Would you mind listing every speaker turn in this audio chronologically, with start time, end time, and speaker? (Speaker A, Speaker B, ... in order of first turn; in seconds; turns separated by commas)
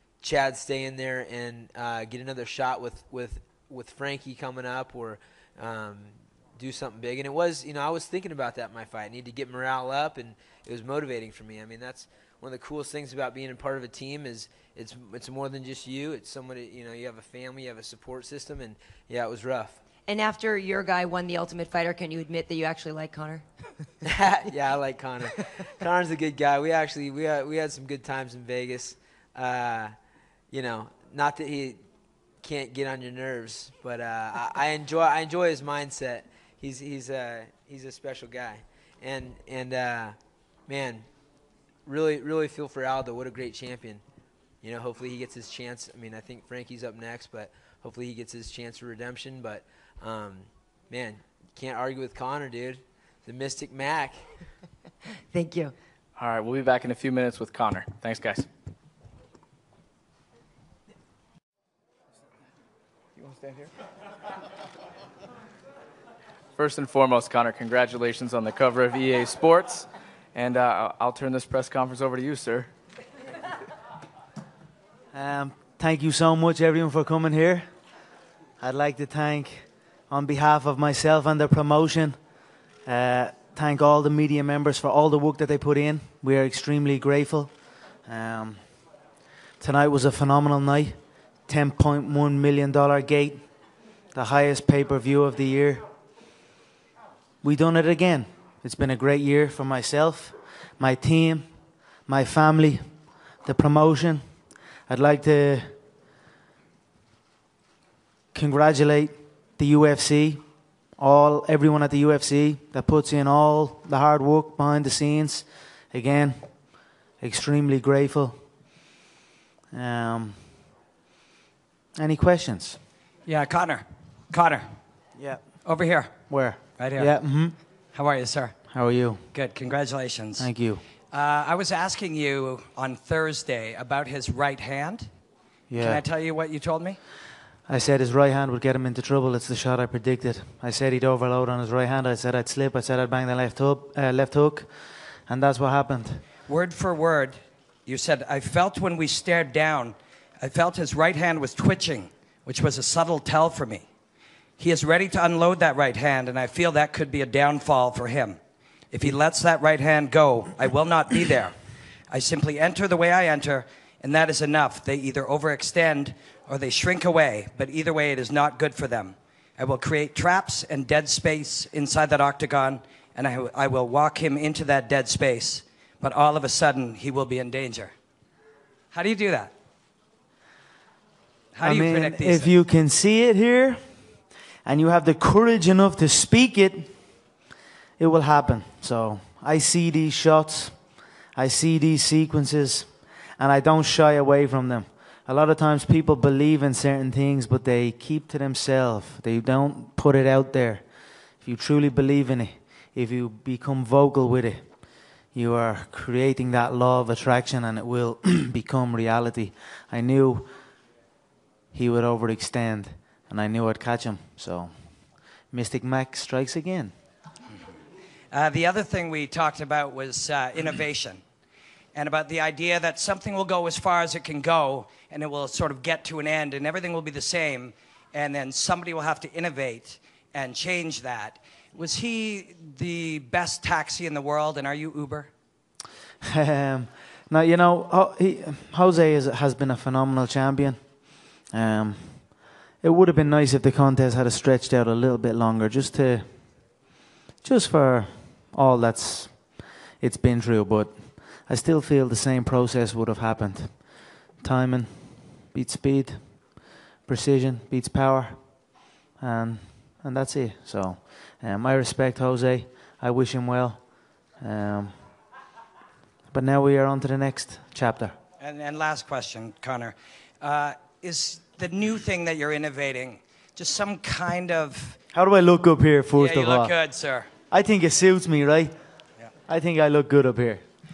Speaker A: 0.2-19.8, Speaker B: 20.1-23.4, Speaker A: 24.1-29.9, Speaker A: 30.5-31.8, Speaker A: 32.4-40.2, Speaker A: 40.7-41.1, Speaker A: 41.9-44.0, Speaker A: 44.6-54.3, Speaker B: 55.3-55.7, Speaker C: 56.2-58.5, Speaker C: 66.6-72.7, Speaker D: 75.1-77.7, Speaker D: 78.6-82.2, Speaker D: 82.8-87.5, Speaker D: 88.0-88.8, Speaker D: 89.6-93.5, Speaker D: 94.1-95.8, Speaker D: 97.4-101.5, Speaker D: 102.1-105.8, Speaker D: 108.3-110.4, Speaker D: 111.0-116.6, Speaker D: 117.2-118.5, Speaker D: 119.7-120.5, Speaker D: 122.0-122.8, Speaker E: 123.3-124.7, Speaker D: 125.2-125.4, Speaker E: 125.7-126.2, Speaker D: 126.3-127.5, Speaker E: 126.8-127.1, Speaker E: 127.9-128.6, Speaker D: 128.7-129.2, Speaker E: 129.3-130.5, Speaker D: 130.4-130.8, Speaker E: 131.1-135.1, Speaker D: 135.7-136.0, Speaker E: 135.8-137.0, Speaker D: 137.7-146.2, Speaker E: 146.5-153.9, Speaker E: 154.6-158.4, Speaker E: 158.9-161.6, Speaker E: 162.1-177.9, Speaker E: 178.9-179.5, Speaker E: 181.6-182.6, Speaker D: 181.6-184.0, Speaker D: 184.7-187.0, Speaker D: 188.0-190.8, Speaker D: 191.3-204.8, Speaker D: 205.3-210.5, Speaker D: 211.7-214.9, Speaker D: 215.5-216.9, Speaker E: 218.3-221.2, Speaker E: 221.9-235.3, Speaker D: 236.2-240.9, Speaker D: 241.5-246.4, Speaker D: 247.4-258.4, Speaker D: 259.2-263.8, Speaker D: 264.4-265.1, Speaker D: 266.3-268.2, Speaker E: 268.4-275.0, Speaker D: 275.1-276.7, Speaker E: 276.1-277.3, Speaker D: 277.5-278.8, Speaker D: 279.5-280.6